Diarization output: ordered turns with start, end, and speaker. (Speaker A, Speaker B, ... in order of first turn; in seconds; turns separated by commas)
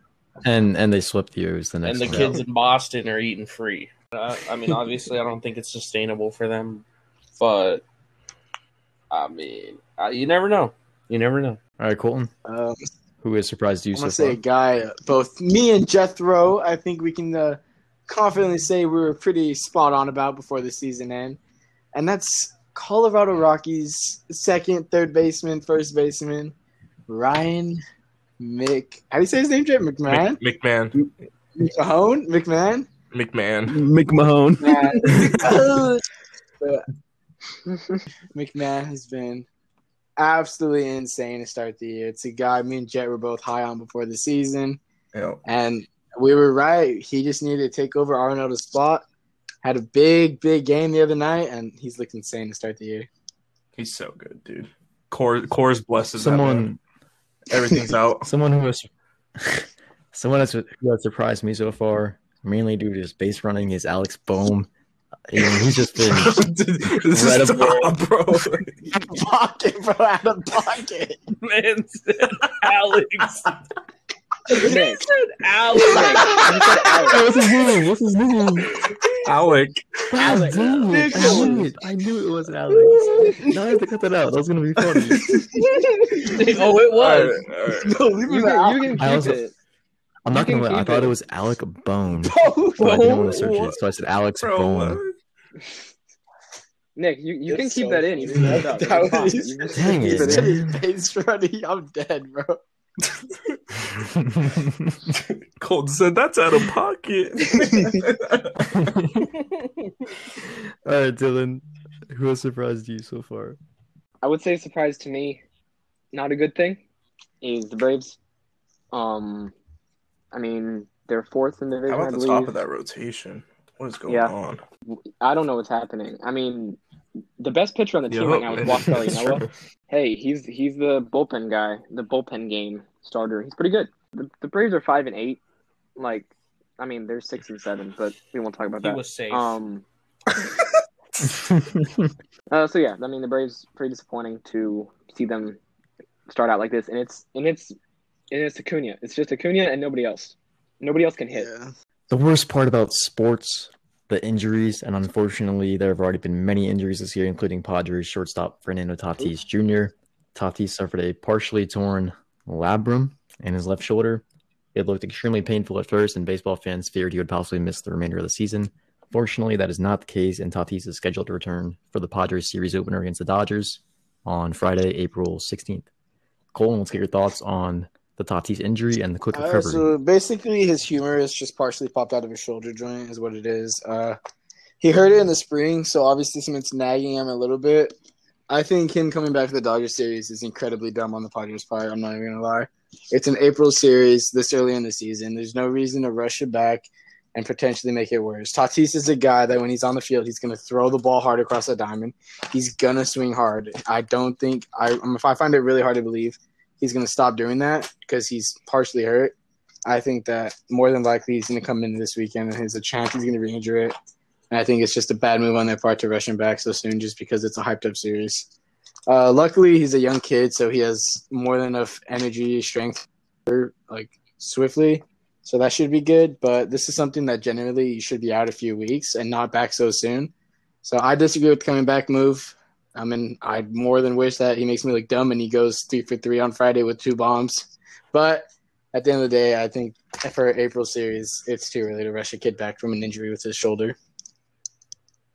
Speaker A: 0.4-2.4, Speaker B: 1.9-6.8, Speaker B: 7.4-7.8, Speaker B: 9.1-11.6, Speaker A: 11.8-12.3, Speaker C: 12.4-12.8, Speaker A: 13.2-14.4, Speaker C: 13.9-21.4, Speaker C: 21.9-26.5, Speaker C: 27.1-27.8, Speaker C: 28.4-30.4, Speaker D: 30.1-31.0, Speaker C: 31.6-32.9, Speaker D: 33.1-33.8, Speaker B: 33.7-35.9, Speaker C: 34.6-36.0, Speaker C: 36.6-36.9, Speaker C: 38.3-39.5, Speaker C: 40.2-44.8, Speaker D: 45.1-45.4, Speaker C: 45.5-49.0, Speaker C: 49.6-53.1, Speaker D: 53.8-56.7, Speaker A: 56.2-56.8, Speaker D: 57.5-58.3, Speaker A: 58.2-64.7, Speaker A: 65.3-66.4, Speaker D: 66.1-68.8, Speaker A: 67.0-67.9, Speaker C: 69.0-71.2, Speaker B: 71.3-73.5, Speaker B: 74.5-76.6, Speaker E: 74.5-75.1, Speaker E: 75.8-77.2, Speaker C: 76.1-76.5, Speaker A: 77.0-78.7, Speaker D: 79.2-79.8, Speaker A: 80.1-85.4, Speaker E: 80.2-81.6, Speaker C: 80.3-81.8, Speaker C: 82.9-83.6, Speaker C: 85.1-86.7, Speaker B: 86.0-87.4, Speaker D: 87.0-88.0, Speaker C: 87.7-89.2, Speaker E: 88.3-89.5, Speaker A: 89.0-89.4, Speaker A: 90.2-95.0, Speaker E: 90.3-91.1, Speaker C: 92.2-93.4, Speaker B: 92.8-93.4, Speaker D: 93.3-93.8, Speaker D: 94.4-95.2, Speaker E: 97.0-100.5, Speaker C: 97.5-102.6, Speaker A: 99.7-100.8, Speaker A: 104.0-105.1, Speaker D: 105.2-108.8, Speaker C: 107.5-108.0, Speaker A: 108.7-109.3, Speaker B: 109.4-109.9, Speaker A: 110.4-113.6, Speaker E: 114.2-115.4, Speaker E: 116.1-116.8, Speaker E: 117.4-118.2, Speaker E: 118.9-119.5, Speaker E: 120.3-122.6, Speaker D: 121.9-124.6, Speaker E: 124.1-124.3, Speaker E: 124.9-126.8, Speaker E: 127.4-135.4, Speaker D: 128.1-129.5, Speaker E: 136.0-139.8, Speaker B: 138.8-139.6, Speaker A: 141.5-142.0, Speaker E: 142.5-145.6, Speaker E: 146.3-147.8, Speaker E: 148.3-151.5, Speaker C: 151.3-151.7, Speaker A: 152.1-175.9, Speaker A: 176.5-179.9, Speaker C: 179.3-184.2, Speaker C: 184.8-187.9, Speaker C: 188.5-209.3, Speaker C: 209.9-213.9, Speaker C: 214.5-218.5, Speaker C: 219.1-230.3, Speaker C: 230.8-244.0